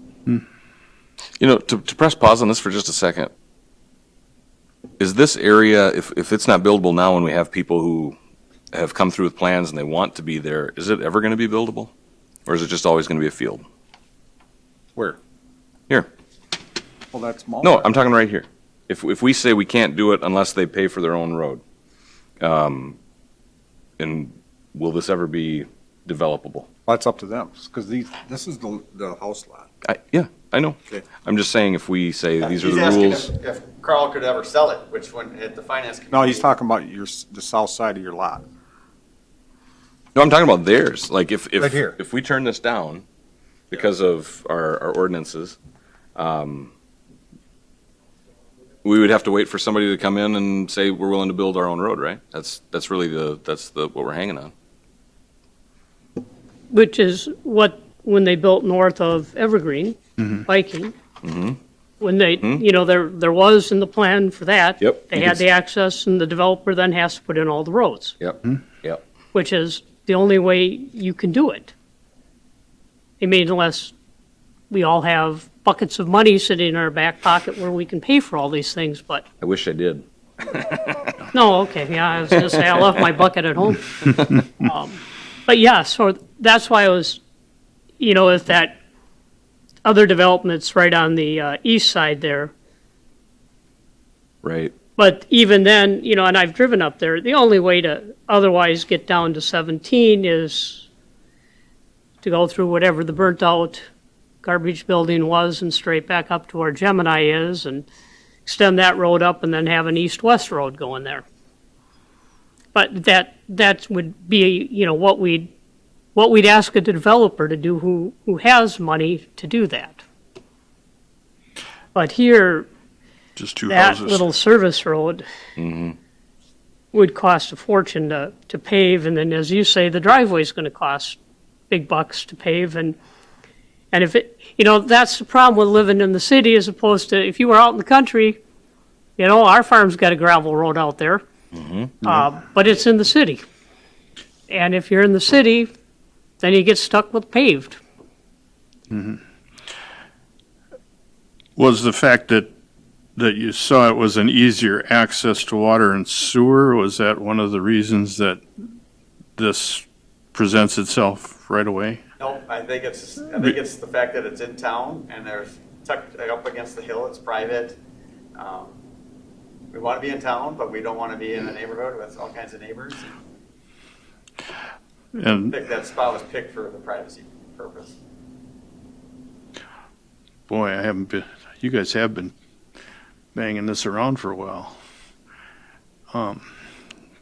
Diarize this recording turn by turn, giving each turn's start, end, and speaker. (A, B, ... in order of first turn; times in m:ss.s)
0:01.4-0:03.3 A
0:05.0-0:08.1 A
0:08.7-0:11.9 A
0:12.5-0:13.6 A
0:17.1-0:17.9 B
0:17.6-0:21.6 A
0:22.4-0:23.0 A
0:24.0-0:26.7 A
0:26.9-0:29.7 B
0:29.8-0:33.3 A
0:32.4-0:36.5 C
0:36.1-0:38.4 B
0:40.2-0:43.0 A
0:41.6-0:42.0 B
0:43.7-0:45.6 A
0:46.2-0:46.7 A
0:48.8-0:54.5 A
0:56.7-1:00.9 D
1:01.2-1:01.6 A
1:02.0-1:08.2 D
1:04.8-1:05.4 A
1:08.2-1:09.0 A
1:09.3-1:11.7 D
1:13.2-1:13.9 D
1:14.7-1:19.2 D
1:19.4-1:20.0 A
1:21.3-1:27.2 D
1:28.0-1:28.8 D
1:29.8-1:32.5 D
1:34.4-1:34.7 A
1:35.0-1:40.9 D
1:42.2-1:43.8 D
1:44.4-1:47.9 D
1:48.4-1:51.2 D
1:52.7-1:55.5 D
1:56.1-2:00.0 D
2:01.9-2:02.7 D
2:03.4-2:04.2 E
2:03.7-2:05.2 D
2:05.6-2:06.0 A
2:06.9-2:11.2 D
2:11.7-2:13.0 D
2:13.9-2:18.4 D
2:19.2-2:21.2 D
2:21.5-2:22.0 A
2:22.0-2:23.4 D
2:24.5-2:25.7 D
2:26.4-2:27.8 D
2:28.9-2:29.2 E
2:31.6-2:32.5 E
2:33.2-2:38.4 E
2:39.4-2:42.0 E
2:42.2-2:47.8 C
2:48.4-2:48.8 C
2:49.7-2:53.2 C
2:55.2-2:55.5 E
2:55.5-2:58.0 C
3:00.5-3:02.3 E
3:03.3-3:04.8 E
3:06.1-3:06.5 E